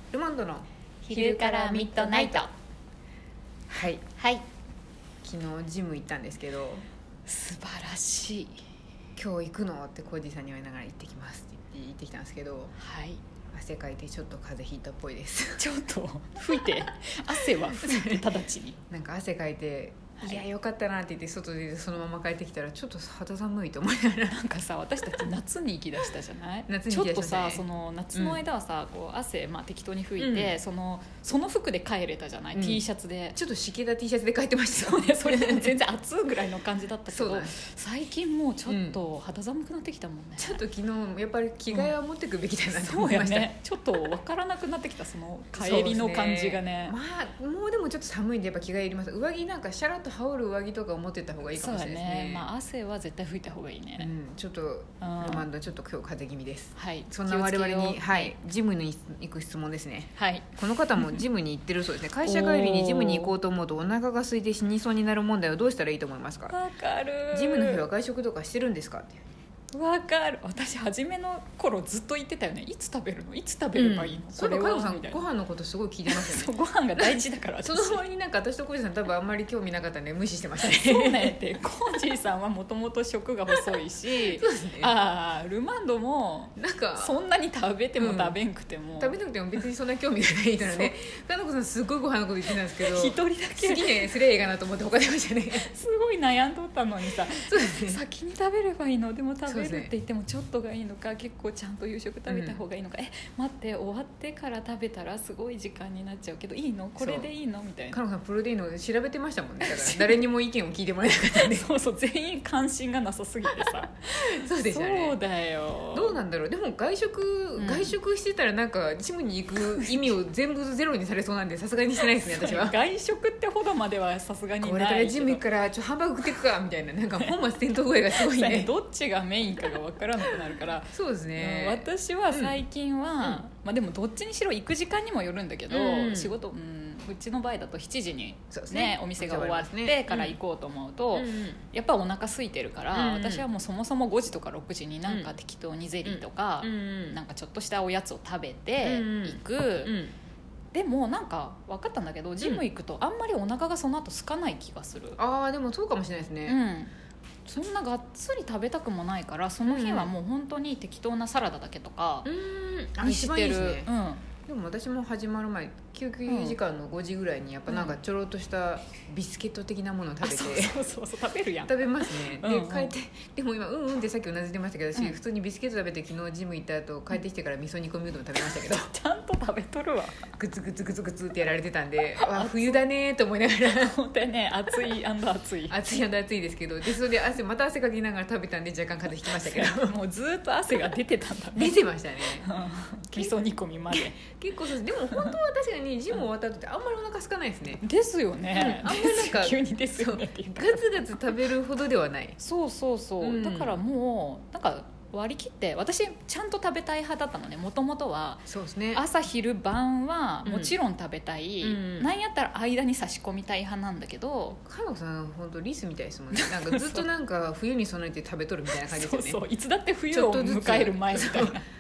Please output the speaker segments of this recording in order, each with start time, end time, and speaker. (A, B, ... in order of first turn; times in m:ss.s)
0:00.1-0:02.5 A
0:01.0-0:02.5 B
0:03.7-0:04.0 A
0:04.2-0:04.4 B
0:05.2-0:06.8 A
0:07.3-0:08.6 B
0:09.2-0:12.7 A
0:12.8-0:13.2 B
0:13.5-0:15.6 A
0:15.6-0:18.8 B
0:17.3-0:18.3 A
0:18.9-0:24.4 A
0:24.3-0:33.4 B
0:26.7-0:28.4 A
0:30.2-0:30.6 A
0:32.5-0:32.8 A
0:33.4-0:35.8 A
0:34.8-0:40.6 B
0:37.1-0:37.6 A
0:38.7-0:39.0 A
0:40.4-0:43.5 A
0:42.7-0:47.0 B
0:45.5-0:52.5 A
0:51.5-0:54.1 B
0:54.0-1:06.6 A
0:55.0-0:55.5 B
0:56.8-0:58.3 B
1:00.2-1:00.4 B
1:02.2-1:03.4 B
1:06.5-1:07.8 B
1:07.3-1:09.2 A
1:09.7-1:15.2 B
1:13.7-1:21.4 A
1:16.1-1:18.0 B
1:20.6-1:29.2 B
1:23.5-1:23.8 A
1:24.3-1:24.9 A
1:26.6-1:27.2 A
1:28.0-1:28.4 A
1:29.0-1:35.7 A
1:30.6-1:30.9 B
1:32.8-1:34.1 B
1:35.6-1:48.0 B
1:37.3-1:38.0 A
1:39.5-1:39.9 A
1:42.3-1:42.6 A
1:47.0-1:47.3 A
1:47.9-1:51.7 A
1:49.6-1:50.2 B
1:51.4-1:56.2 B
1:53.5-1:55.2 A
1:55.9-2:02.8 A
1:57.6-1:58.0 B
1:59.8-2:00.0 B
2:02.0-2:05.4 B
2:04.6-2:08.7 A
2:08.1-2:29.9 B
2:10.3-2:12.6 A
2:15.7-2:16.3 A
2:18.5-2:20.4 A
2:21.1-2:21.6 A
2:22.9-2:23.5 A
2:26.0-2:27.2 A
2:28.8-2:30.2 A
2:30.7-2:35.2 B
2:32.4-2:32.6 A
2:35.2-2:36.6 A
2:36.5-2:36.9 B
2:37.5-2:42.3 B
2:39.6-2:40.1 A
2:42.2-2:43.9 A
2:43.0-2:44.2 B
2:44.4-2:50.8 A
2:46.3-2:46.6 B
2:47.7-2:48.0 B
2:50.2-2:53.0 B
2:51.6-2:58.9 A
2:58.5-3:00.2 B
3:00.4-3:04.0 A
3:02.2-3:02.8 B
3:03.7-3:06.0 B
3:05.7-3:10.0 A
3:09.3-3:11.8 B
3:11.6-3:12.5 A
3:12.4-3:14.2 B
3:13.9-3:17.8 A
3:17.8-3:20.9 B
3:18.5-3:22.4 A
3:22.4-3:34.6 B
3:23.2-3:23.8 A
3:28.5-3:29.0 A
3:30.4-3:30.8 A
3:31.6-3:32.1 A
3:34.7-3:39.4 A
3:36.3-3:37.1 B
3:38.8-3:41.6 B
3:40.1-3:41.6 A